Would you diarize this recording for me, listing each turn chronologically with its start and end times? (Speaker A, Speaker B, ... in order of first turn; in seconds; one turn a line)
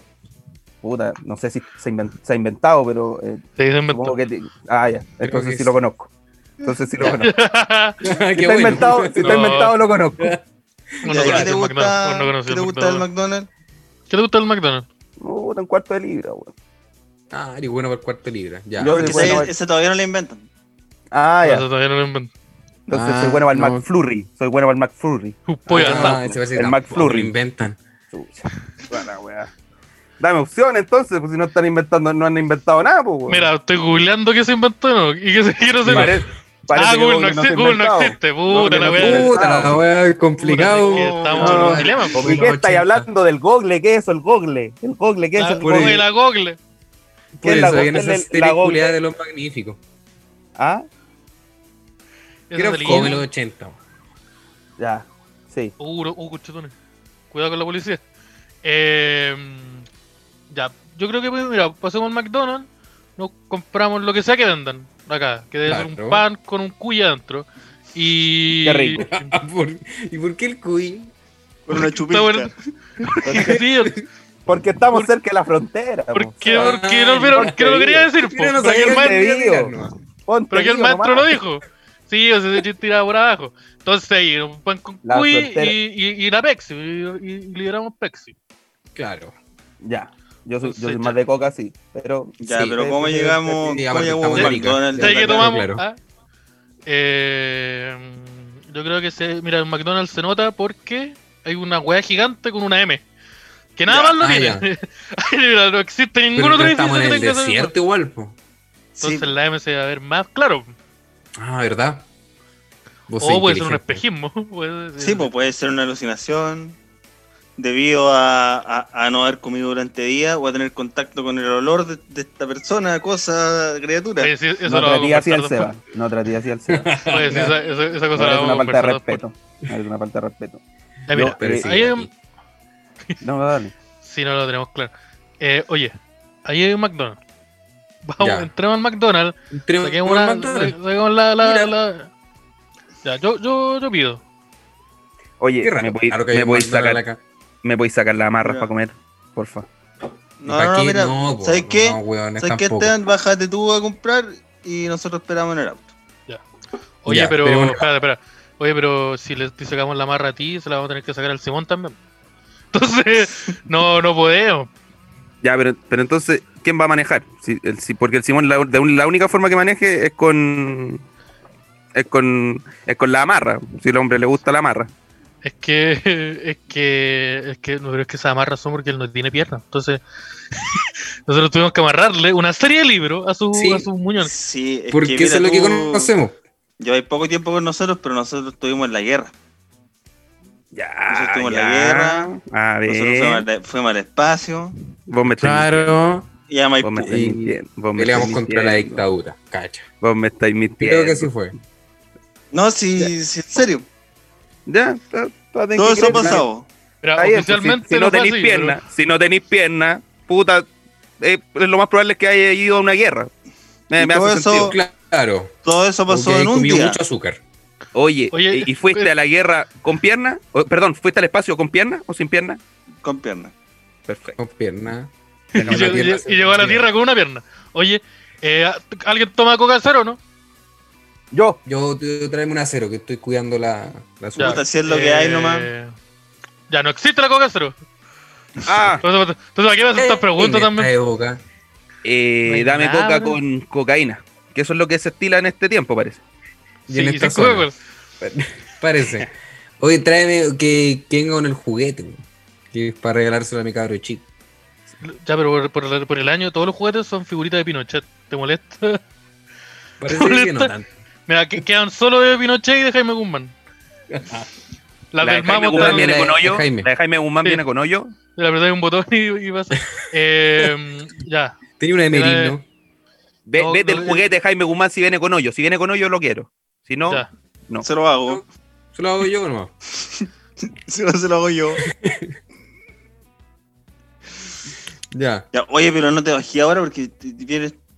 Speaker A: 0.8-6.1
Speaker B: 3.6-4.2
Speaker C: 5.2-5.7
Speaker A: 6.6-7.3
Speaker B: 7.0-8.0
Speaker C: 8.0-10.4
Speaker A: 8.3-10.4
Speaker B: 9.2-9.7
Speaker C: 11.0-11.5
Speaker B: 11.0-13.1
Speaker D: 11.1-13.5
Speaker B: 14.1-14.8
Speaker A: 15.2-16.5
Speaker C: 17.3-19.4
Speaker A: 18.8-19.5
Speaker D: 18.8-20.5
Speaker A: 21.1-21.6
Speaker B: 21.4-22.3
Speaker A: 22.9-27.3
Speaker C: 22.9-23.8
Speaker B: 25.5-26.2
Speaker C: 25.7-27.8
Speaker A: 28.1-29.5
Speaker A: 30.2-33.5
Speaker B: 33.3-36.1
Speaker C: 35.9-36.1
Speaker A: 35.9-39.8
Speaker B: 36.7-39.4
Speaker C: 38.6-43.1
Speaker B: 40.4-42.5
Speaker D: 40.9-41.4
Speaker A: 41.4-46.0
Speaker B: 45.4-46.6
Speaker C: 45.6-46.0
Speaker C: 47.4-49.8
Speaker A: 47.4-49.0
Speaker A: 50.6-50.9
Speaker B: 52.5-53.2
Speaker C: 52.5-53.8
Speaker A: 54.8-55.7
Speaker B: 55.8-56.7
Speaker B: 57.3-58.0
Speaker B: 58.6-59.9
Speaker B: 60.5-69.3
Speaker C: 65.7-66.2
Speaker A: 68.6-69.1
Speaker C: 69.0-71.1
Speaker D: 71.7-72.5
Speaker B: 71.7-72.5
Speaker B: 73.0-74.0
Speaker A: 73.2-73.6
Speaker A: 74.5-76.8
Speaker B: 76.1-79.2
Speaker C: 76.5-77.5
Speaker A: 77.3-78.1
Speaker C: 78.2-79.9
Speaker A: 78.6-79.7
Speaker A: 80.3-81.3
Speaker B: 80.5-88.3
Speaker A: 85.0-85.8
Speaker C: 88.9-89.3
Speaker A: 89.8-93.8
Speaker B: 90.6-91.2
Speaker D: 92.4-95.5
Speaker C: 93.7-95.8
Speaker A: 94.5-94.7
Speaker B: 95.0-96.0
Speaker B: 96.8-103.0
Speaker B: 103.8-107.7
Speaker D: 103.9-104.2
Speaker C: 104.2-104.7
Speaker C: 106.3-108.3
Speaker D: 109.0-109.3
Speaker B: 109.0-110.7
Speaker C: 111.4-112.0
Speaker C: 113.1-114.0
Speaker B: 113.2-115.3
Speaker D: 115.0-116.8
Speaker D: 117.6-124.3
Speaker B: 124.2-125.7
Speaker A: 124.6-127.4
Speaker C: 126.7-127.5
Speaker B: 127.0-129.2
Speaker A: 128.1-130.6
Speaker B: 131.1-132.1
Speaker A: 131.1-131.7
Speaker C: 131.4-132.1
Speaker A: 133.2-133.7
Speaker B: 134.0-137.2
Speaker B: 138.0-142.1
Speaker C: 138.2-138.5
Speaker C: 139.5-140.7
Speaker C: 141.4-141.7
Speaker B: 143.0-144.2
Speaker A: 145.4-147.0
Speaker C: 145.6-147.2
Speaker A: 147.6-149.7
Speaker D: 148.4-148.7
Speaker D: 150.4-155.9
Speaker C: 150.5-152.9
Speaker B: 157.0-162.0
Speaker C: 157.1-157.8
Speaker B: 162.7-164.7
Speaker A: 165.4-171.0
Speaker A: 171.9-174.9
Speaker B: 175.4-180.0
Speaker B: 180.5-184.3
Speaker C: 183.5-183.9
Speaker D: 184.2-186.1
Speaker C: 184.9-186.4
Speaker D: 186.8-189.3
Speaker A: 190.7-193.4
Speaker D: 191.1-192.3
Speaker D: 192.8-194.8
Speaker A: 195.1-195.9
Speaker C: 195.4-196.3
Speaker D: 196.5-197.1
Speaker A: 196.8-199.0
Speaker C: 197.0-199.9
Speaker A: 200.0-201.3
Speaker C: 200.8-201.5
Speaker D: 202.5-203.8
Speaker A: 204.7-206.5
Speaker D: 205.8-206.7
Speaker B: 207.0-208.8
Speaker A: 207.2-210.7
Speaker A: 211.2-213.3
Speaker A: 213.9-214.7
Speaker D: 214.0-214.8
Speaker C: 214.6-215.5
Speaker D: 215.6-217.0
Speaker C: 216.1-217.4
Speaker A: 217.9-222.6
Speaker B: 218.3-219.1
Speaker D: 223.0-223.5
Speaker A: 224.1-224.4
Speaker C: 224.4-226.9
Speaker B: 225.5-230.2
Speaker A: 225.6-226.1
Speaker A: 231.3-231.6
Speaker C: 231.7-234.6
Speaker D: 234.4-235.7
Speaker B: 234.4-235.9
Speaker B: 236.7-237.8
Speaker A: 238.7-239.0
Speaker B: 239.0-240.9
Speaker C: 239.9-241.4
Speaker A: 242.0-246.2
Speaker B: 242.4-243.4
Speaker C: 246.9-247.7
Speaker B: 246.9-247.7
Speaker C: 248.2-252.2
Speaker C: 252.7-254.2
Speaker B: 255.0-259.0
Speaker C: 260.0-260.9
Speaker B: 260.1-260.7
Speaker B: 261.3-263.5
Speaker C: 264.1-264.5
Speaker B: 265.1-266.3
Speaker A: 265.2-268.1
Speaker C: 265.5-266.9
Speaker B: 268.4-271.6
Speaker C: 271.8-272.6
Speaker B: 272.1-272.6
Speaker A: 273.4-277.9
Speaker B: 273.6-274.2
Speaker D: 277.8-278.4
Speaker C: 278.9-279.7
Speaker D: 280.9-281.8
Speaker C: 281.9-282.3
Speaker C: 285.1-285.4
Speaker D: 285.5-287.8